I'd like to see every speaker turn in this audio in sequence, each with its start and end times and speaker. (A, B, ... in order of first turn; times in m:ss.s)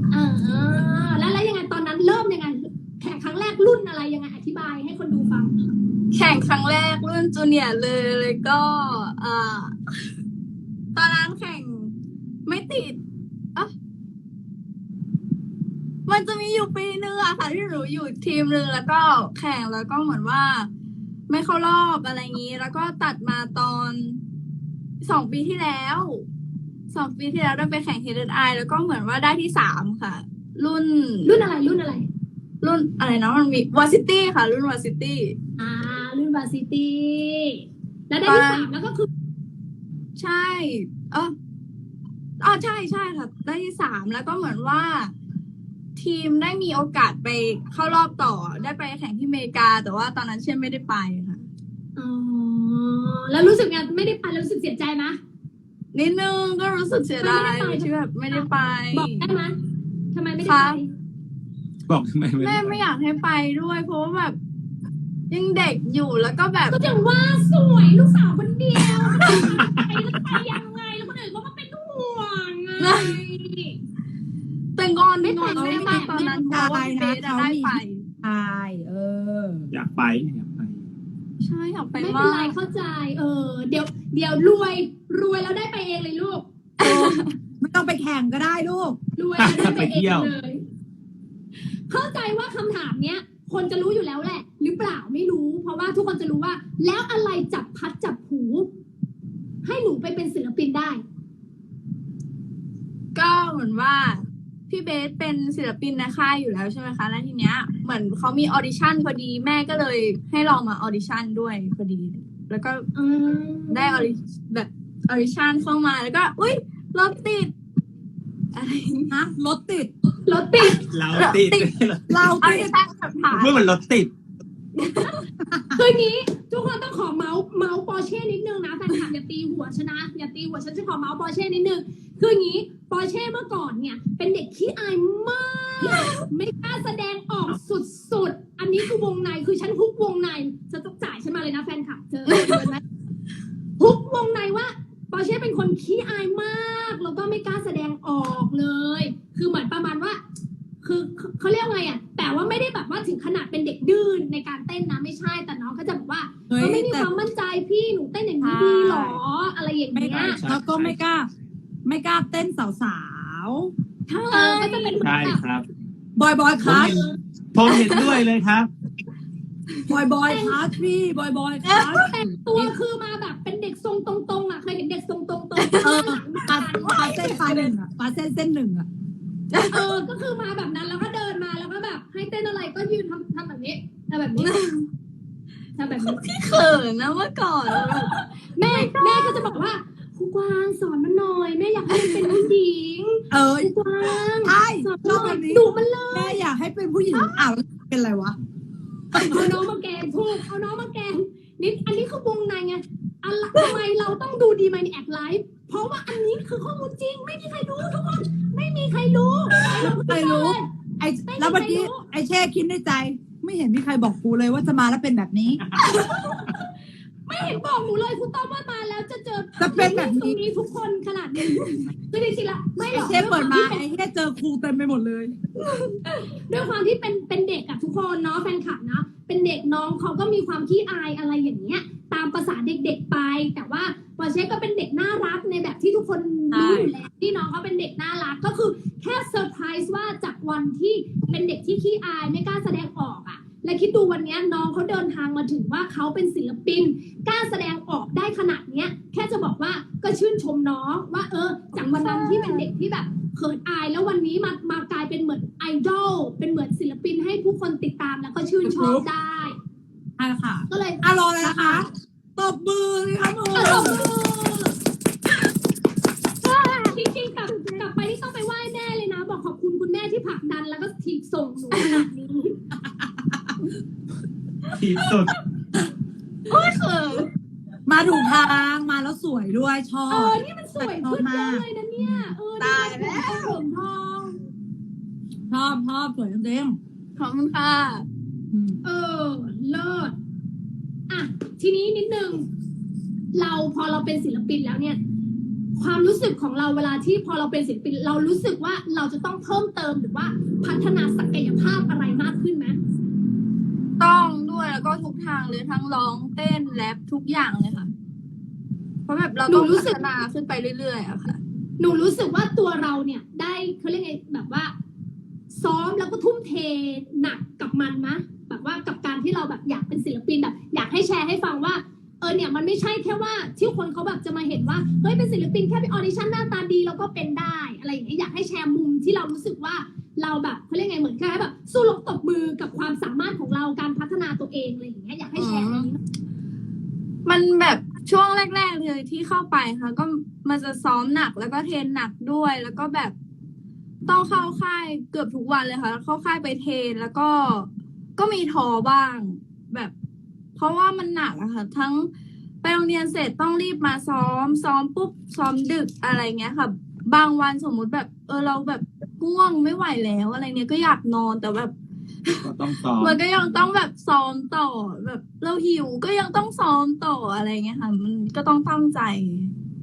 0:00.1-0:05.5 A
0:06.1-0:09.8 B
0:10.9-0:11.9 B
0:12.4-0:13.0 B
0:16.1-0:20.7 B
0:21.3-0:24.2 B
0:25.0-0:26.2 B
0:26.9-0:31.3 B
0:31.2-0:32.1 A
0:32.6-0:35.4 B
0:35.6-0:39.1 A
0:38.2-0:38.7 B
0:40.2-0:41.3 B
0:42.4-0:45.1 B
0:46.0-0:51.4 B
0:52.0-0:55.2 A
0:55.9-0:59.3 B
0:57.2-0:59.6 A
1:00.1-1:00.9 A
1:00.4-1:00.8 B
1:01.9-1:02.8 C
1:02.4-1:04.4 B
1:05.3-1:06.8 B
1:06.7-1:13.8 A
1:08.9-1:09.8 C
1:09.2-1:09.6 B
1:12.8-1:13.2 B
1:14.8-1:18.0 B
1:15.2-1:16.4 A
1:15.5-1:19.7 D
1:19.7-1:20.8 C
1:21.4-1:22.5 B
1:22.0-1:26.4 A
1:26.8-1:27.3 B
1:26.8-1:29.0 D
1:29.2-1:30.6 A
1:29.4-1:30.3 C
1:31.9-1:38.7 A
1:39.6-1:41.0 A
1:43.1-1:52.8 B
1:53.0-1:54.1 A
1:53.7-1:57.5 B
1:58.5-1:59.1 B
1:59.1-1:59.9 D
2:00.3-2:00.8 A
2:00.6-2:01.7 B
2:00.9-2:02.3 C
2:02.1-2:02.7 D
2:02.2-2:03.6 B
2:03.3-2:04.1 C
2:04.8-2:05.2 B
2:05.7-2:22.8 A
2:15.8-2:16.2 B
2:22.3-2:22.6 B
2:23.8-2:30.2 A
2:30.8-2:40.4 A
2:36.5-2:37.1 D
2:38.4-2:39.2 D
2:39.9-2:41.3 D
2:40.1-2:41.0 C
2:41.8-2:43.7 D
2:44.1-2:45.0 B
2:44.3-2:45.4 A
2:45.0-2:45.6 C
2:46.2-2:47.0 D
2:46.6-2:48.7 C
2:47.7-2:48.2 B
2:49.9-2:52.1 D
2:50.2-2:50.6 A
2:51.6-2:52.0 B
2:51.9-2:57.7 A
2:55.6-2:56.1 B
2:55.8-2:58.9 D
2:56.8-2:57.6 B
2:59.5-2:59.9 B
2:59.7-3:04.5 A
3:04.4-3:04.9 B
3:05.8-3:06.2 A
3:06.0-3:09.6 B
3:07.7-3:16.4 A
3:11.9-3:12.5 B
3:13.3-3:13.7 D
3:14.4-3:18.4 D
3:17.1-3:17.4 A
3:19.1-3:19.5 D
3:19.2-3:30.7 A
3:29.7-3:35.6 D
3:31.2-3:32.0 A
3:35.8-3:36.7 A
3:37.3-3:43.8 A
3:39.6-3:40.4 D
3:42.9-3:45.4 D
3:46.0-4:19.6 A
3:56.5-3:56.9 B
4:11.8-4:12.6 B
4:18.6-4:19.0 D
4:20.2-4:24.0 D
4:20.7-4:21.8 A
4:23.5-4:24.7 A
4:26.4-4:27.8 B
4:26.8-4:32.6 A
4:34.7-4:35.4 C
4:36.5-4:37.3 B
4:37.9-4:42.3 D
4:38.1-4:38.5 A
4:40.1-4:44.4 A
4:42.6-4:43.6 B
4:45.5-4:46.8 D
4:47.2-4:48.0 B
4:48.5-4:48.8 D
4:48.8-4:50.1 A
4:51.1-4:52.5 A
4:53.3-4:55.0 A
4:55.8-5:02.8 A
5:04.0-5:07.9 B
5:09.1-5:11.4 B
5:09.5-5:10.0 A
5:11.8-5:14.7 A
5:15.5-5:36.0 A
5:35.4-5:35.9 B
5:37.2-5:43.1 B
5:44.1-5:49.9 B
5:50.6-5:52.1 B
5:52.6-6:01.7 B
6:02.4-6:03.2 C
6:03.0-6:09.5 B